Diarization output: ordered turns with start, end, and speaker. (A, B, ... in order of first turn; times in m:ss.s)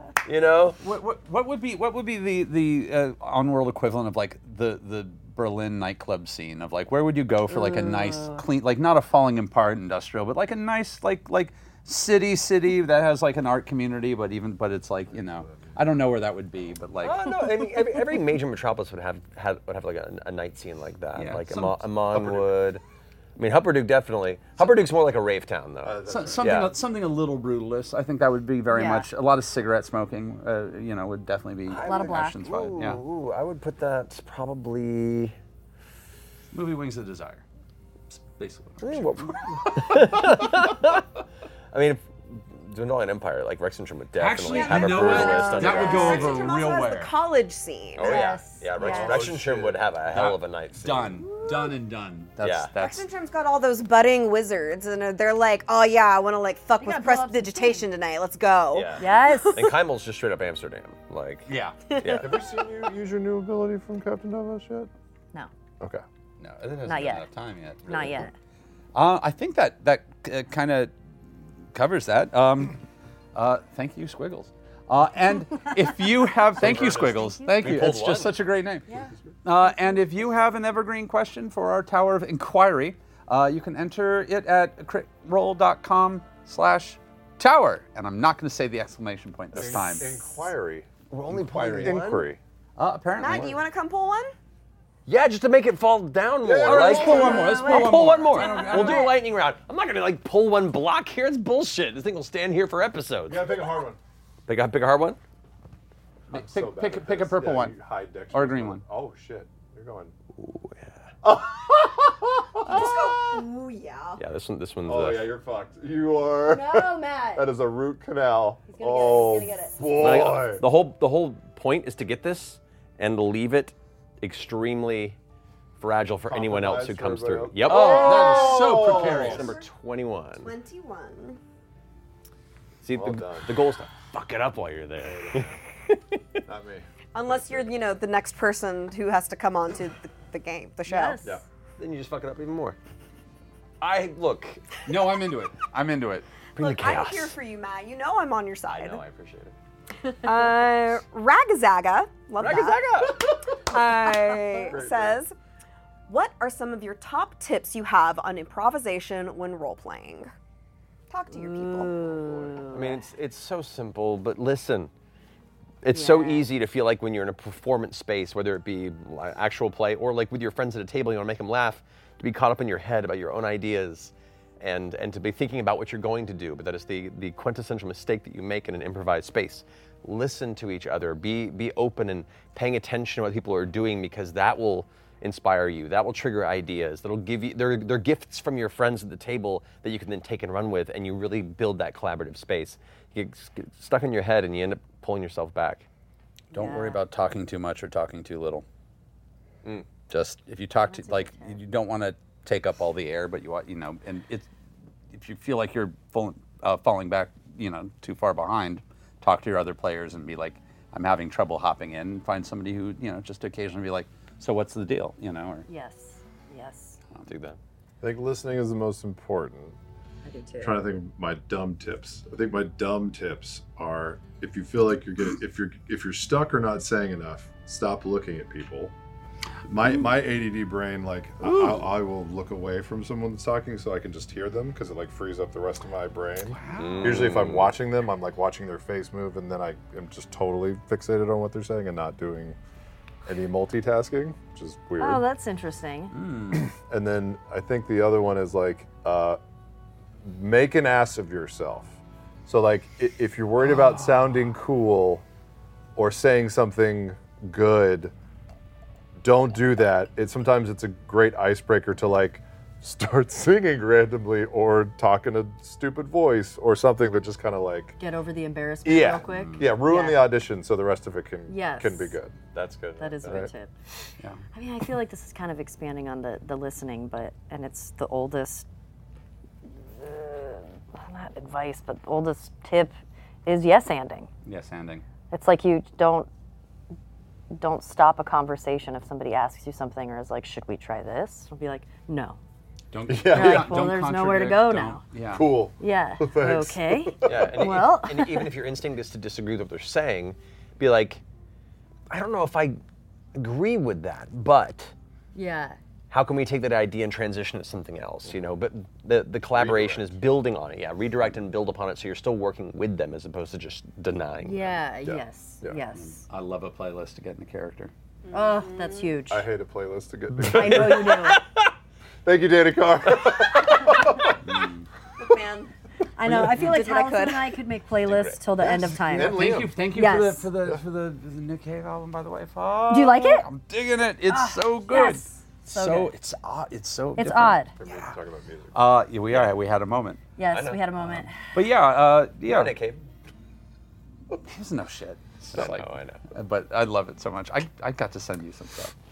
0:00.2-0:00.8 A
0:00.8-0:17.3 B
0:07.5-0:08.4 C
0:15.1-0:15.8 D
0:17.0-0:22.8 A
0:21.2-0:21.9 B
0:22.1-0:22.5 D
0:23.4-0:26.7 A
0:25.8-0:26.7 D
0:26.1-0:33.0 B
0:28.7-0:29.1 C
0:31.7-0:35.4 A
0:31.8-0:32.4 C
0:36.5-0:37.4 B
0:38.1-0:40.5 B
0:38.8-0:41.0 A
0:41.7-0:46.4 A
0:44.2-0:47.1 B
0:44.5-0:48.9 E
0:44.5-0:46.4 C
0:48.0-0:51.2 A
0:48.0-0:49.2 C
0:48.8-0:49.8 D
0:50.1-0:53.1 B
0:52.4-0:52.7 A
0:52.8-0:59.5 E
0:56.8-0:57.8 C
0:58.7-1:02.3 A
0:59.0-0:59.6 C
1:01.5-1:01.9 B
1:01.9-1:02.2 C
1:02.2-1:04.9 D
1:06.4-1:07.9 B
1:06.9-1:07.2 C
1:07.9-1:08.3 C
1:07.9-1:08.1 A
1:09.0-1:10.9 B
1:11.7-1:12.8 B
1:13.4-1:18.8 B
1:16.6-1:18.4 A
1:16.6-1:17.0 D
1:19.4-1:30.2 B
1:29.5-1:32.4 D
1:31.1-1:32.3 A
1:31.5-1:32.0 B
1:32.8-1:33.6 B
1:33.2-1:34.3 E
1:35.1-1:43.5 A
1:36.4-1:37.5 D
1:36.6-1:39.1 B
1:37.0-1:39.2 C
1:43.3-1:44.0 D
1:44.5-1:45.2 A
1:46.3-1:50.1 D
1:46.3-1:47.8 B
1:48.3-1:48.8 B
1:50.4-1:51.1 A
1:51.2-1:53.5 D
1:52.7-1:54.2 E
1:54.2-1:55.4 A
1:54.8-2:00.6 D
1:56.5-1:57.4 C
1:58.7-1:59.8 C
1:59.9-2:05.2 A
2:05.8-2:10.5 A
2:06.3-2:09.5 D
2:07.6-2:09.5 B
2:07.8-2:08.3 C
2:08.0-2:09.6 E
2:10.4-2:11.4 E
2:12.8-2:16.4 A
2:12.9-2:13.5 D
2:15.0-2:15.6 D
2:16.5-2:17.7 D
2:17.1-2:21.2 E
2:20.9-2:21.4 C
2:21.8-2:22.8 A
2:23.8-2:24.7 A
2:24.8-2:26.3 B
2:26.6-2:27.4 A
2:26.6-2:29.0 E
2:28.7-2:29.6 A
2:30.2-2:35.3 E
2:32.4-2:33.3 A
2:34.4-2:34.7 C
2:34.6-2:35.2 D
2:36.1-2:40.3 E
2:41.1-2:42.0 E
2:41.3-2:43.0 C
2:42.1-2:42.6 D
2:42.7-2:44.9 A
2:45.8-3:15.9 A
2:45.9-2:46.5 C
3:16.5-3:17.0 C
3:16.5-3:18.6 B
3:20.1-3:24.5 B
3:20.9-3:21.6 C
3:25.1-3:35.7 B
3:35.7-3:37.0 C
3:37.3-3:37.6 A
3:38.0-3:39.8 D
3:40.2-3:40.8 C
3:40.6-3:49.0 D
3:49.7-4:02.6 D
3:51.4-3:51.9 B
3:56.5-3:57.4 B
3:56.8-3:57.7 A
4:03.2-4:05.2 D
4:05.0-4:06.1 C
4:06.1-4:06.7 B
4:06.5-4:09.4 D
4:10.2-4:15.2 D
4:13.6-4:14.4 B
4:16.0-4:18.1 D
4:19.2-4:28.0 D
4:28.0-4:30.3 C
4:28.8-4:32.4 D
4:29.3-4:29.7 B
4:31.5-4:32.2 C
4:32.5-4:33.4 A
4:33.0-4:33.7 C
4:33.2-4:33.5 D
4:34.5-4:38.7 C
4:40.0-4:42.9 C
4:43.5-4:44.3 C
4:44.5-4:45.0 B
4:45.3-4:46.3 C
4:47.5-4:52.4 C
4:52.9-4:55.5 B
4:53.1-4:53.8 D
4:53.3-4:55.0 C
4:55.3-4:57.6 D
4:55.8-4:58.5 C
4:57.2-5:01.2 A
5:02.1-5:02.8 A
5:03.4-5:04.9 A
5:05.4-5:05.8 C
5:06.1-5:14.8 A
5:09.5-5:10.1 D
5:14.4-5:16.2 C
5:15.1-5:15.8 D
5:16.0-5:17.9 B
5:18.3-5:19.1 E
5:18.3-5:19.5 C
5:19.3-5:21.2 D
5:20.4-5:21.4 C
5:20.6-5:21.6 A
5:22.2-5:24.4 D
5:24.4-5:24.9 B
5:25.2-5:25.7 E
5:26.2-5:30.5 C
5:26.3-5:26.5 D
5:26.5-5:27.6 E
5:28.1-5:28.4 A
5:28.6-5:29.8 D
5:29.1-5:38.1 B
5:32.9-5:33.5 C
5:34.3-5:36.1 C
5:37.2-5:37.7 C
5:37.8-5:38.8 D
5:38.7-5:40.2 B
5:40.4-5:41.4 C
5:40.5-5:40.8 A
5:41.0-5:42.8 B
5:42.5-5:43.1 A
5:44.5-5:48.9 B
5:45.5-5:46.2 A